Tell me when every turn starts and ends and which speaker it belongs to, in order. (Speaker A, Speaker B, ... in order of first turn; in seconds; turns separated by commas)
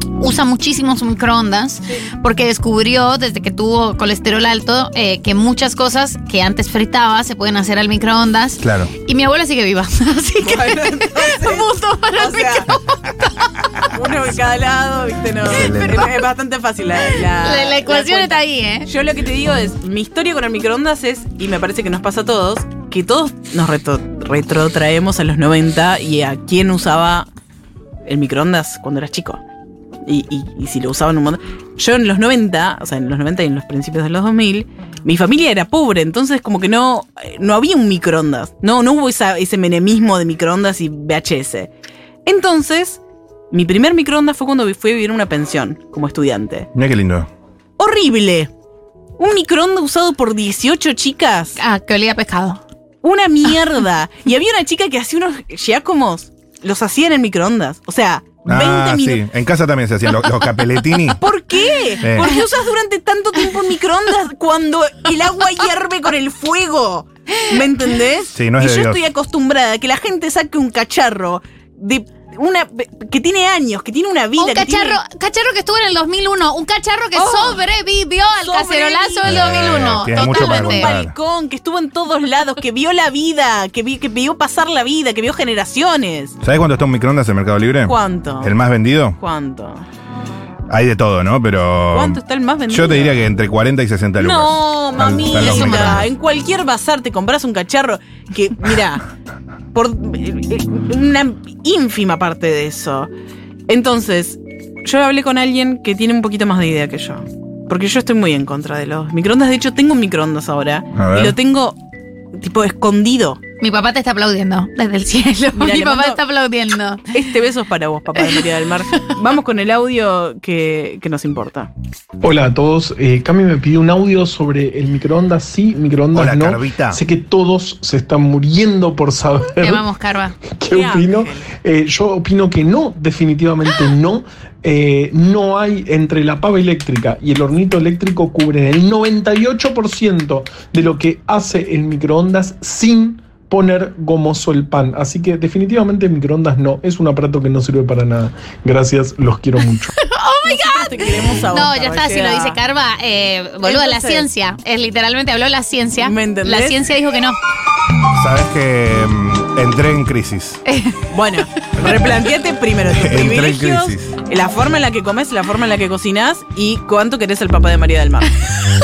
Speaker A: 0.2-13.8, Speaker B: 8.6-8.9, Speaker C: 10.4-12.7, Speaker C: 13.8-27.3, Speaker B: 15.5-16.1, Speaker A: 15.5-16.2, Speaker A: 17.1-18.9, Speaker C: 28.1-29.4, Speaker C: 30.1-41.7, Speaker C: 42.2-43.0, Speaker C: 43.5-46.7, Speaker B: 46.7-47.3, Speaker C: 47.8-48.5, Speaker C: 49.2-51.6, Speaker A: 51.6-52.6, Speaker C: 53.0-59.2, Speaker B: 58.5-61.2, Speaker C: 61.2-75.0, Speaker B: 62.0-62.3, Speaker B: 68.3-69.0, Speaker A: 74.4-80.9, Speaker C: 77.1-77.6, Speaker C: 78.4-86.3, Speaker B: 79.2-81.1, Speaker B: 86.4-89.2, Speaker C: 87.8-88.5, Speaker C: 89.2-89.8, Speaker B: 90.7-96.1, Speaker C: 91.9-93.3, Speaker C: 94.2-99.1, Speaker A: 95.3-96.1, Speaker C: 99.7-103.1, Speaker C: 103.7-111.8, Speaker B: 110.9-111.4, Speaker C: 112.4-113.4, Speaker A: 113.6-117.1, Speaker C: 115.5-116.2, Speaker C: 117.1-121.7, Speaker D: 122.2-129.8, Speaker B: 126.1-127.0, Speaker A: 129.6-130.3, Speaker D: 130.6-149.9, Speaker C: 130.7-131.5, Speaker A: 149.9-157.4, Speaker C: 150.4-152.6, Speaker C: 153.6-154.3, Speaker C: 156.0-156.8, Speaker B: 158.1-160.6, Speaker A: 160.7-161.0, Speaker C: 161.1-168.3, Speaker B: 162.9-164.1